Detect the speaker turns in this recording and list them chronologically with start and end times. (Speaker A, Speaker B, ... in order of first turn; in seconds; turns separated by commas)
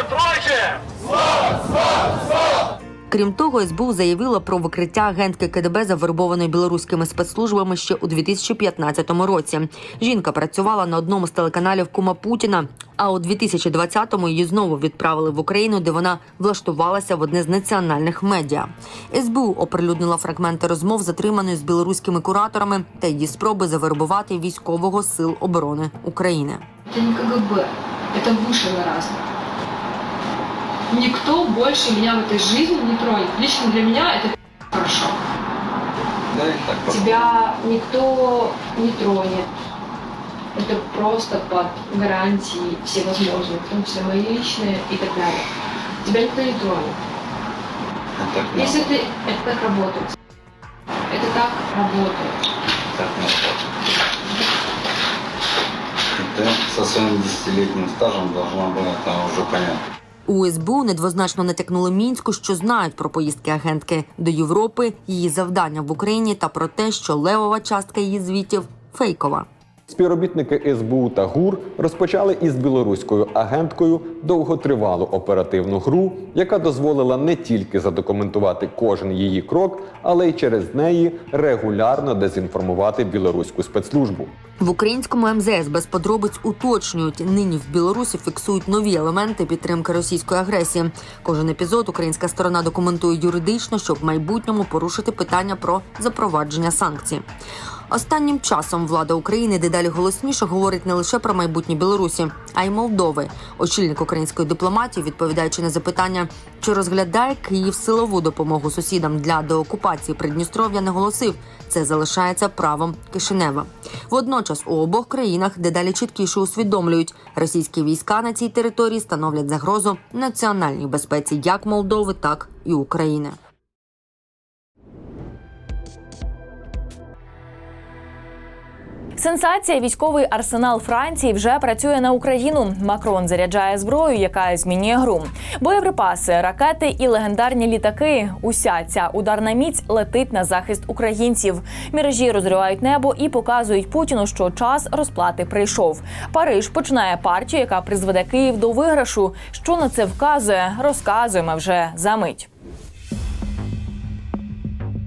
Speaker A: 3.1-26.6, Speaker B: 26.9-29.2, Speaker B: 30.9-35.1, Speaker C: 36.3-37.4, Speaker B: 36.9-39.5, Speaker B: 40.5-45.5, Speaker B: 46.0-47.0, Speaker C: 48.1-48.9, Speaker B: 48.5-50.1, Speaker B: 51.1-52.4, Speaker C: 52.9-53.7, Speaker C: 56.1-59.8, Speaker A: 60.2-69.5, Speaker D: 69.9-84.4, Speaker A: 84.6-97.2, Speaker A: 97.9-123.4, Speaker E: 129.2-152.5